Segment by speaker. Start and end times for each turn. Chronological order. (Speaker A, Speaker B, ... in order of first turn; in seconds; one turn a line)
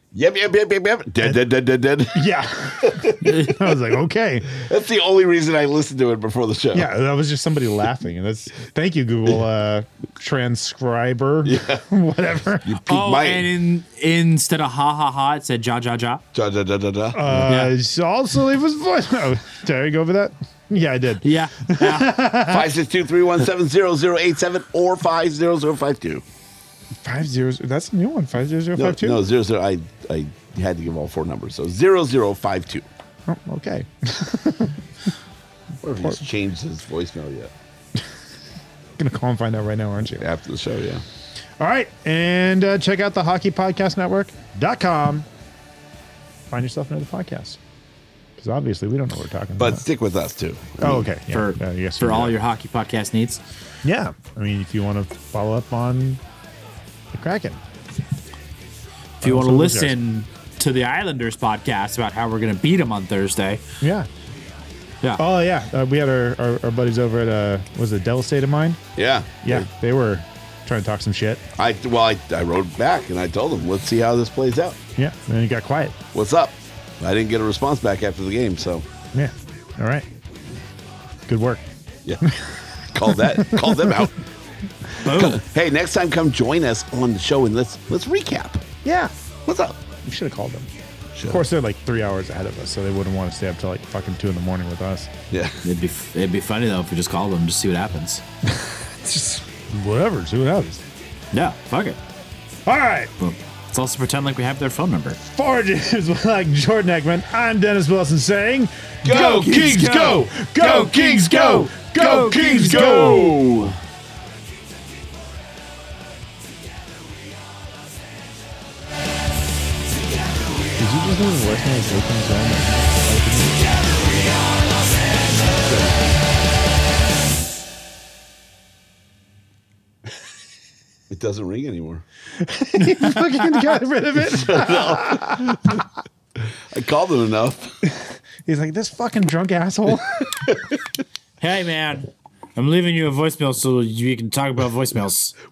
Speaker A: 0.1-3.5
Speaker B: 2.1-4.5
Speaker A: 4.5-6.9
Speaker B: 6.7-12.7
Speaker A: 11.4-11.9
Speaker A: 12.6-13.5
Speaker C: 12.9-16.2
Speaker A: 16.3-17.5
Speaker B: 17.1-22.7
Speaker C: 17.5-17.7
Speaker C: 21.2-22.2
Speaker A: 22.4-26.2
Speaker B: 27.0-29.2
Speaker A: 28.8-32.9
Speaker B: 33.3-34.8
Speaker A: 35.8-37.5
Speaker B: 39.0-40.2
Speaker A: 40.2-41.0
Speaker B: 41.6-45.3
Speaker B: 46.5-47.6
Speaker B: 48.4-49.8
Speaker A: 49.6-51.1
Speaker B: 50.8-52.4
Speaker C: 51.3-53.4
Speaker B: 53.8-56.2
Speaker B: 57.1-57.6
Speaker B: 59.2-59.9
Speaker C: 59.2-63.6
Speaker B: 63.8-64.1
Speaker B: 65.2-68.8
Speaker A: 69.0-69.7
Speaker B: 69.4-71.4
Speaker A: 71.6-74.8
Speaker B: 75.0-76.0
Speaker A: 76.1-78.9
Speaker B: 79.1-80.0
Speaker B: 81.3-81.6
Speaker A: 82.9-84.1
Speaker B: 83.5-84.1
Speaker C: 85.0-85.4
Speaker A: 85.1-88.6
Speaker B: 88.8-89.1
Speaker A: 89.5-89.8
Speaker B: 90.0-90.7
Speaker A: 91.1-91.4
Speaker B: 91.3-95.1
Speaker A: 95.3-95.6
Speaker C: 95.6-98.2
Speaker B: 98.5-100.8
Speaker C: 101.3-102.0
Speaker B: 102.7-103.1
Speaker C: 103.2-105.2
Speaker B: 105.2-113.5
Speaker A: 109.0-113.7
Speaker B: 120.8-124.2
Speaker A: 125.6-126.0
Speaker A: 131.1-132.0
Speaker B: 132.4-135.7
Speaker A: 134.2-135.6
Speaker A: 136.7-137.8
Speaker B: 138.4-140.3
Speaker C: 141.4-145.3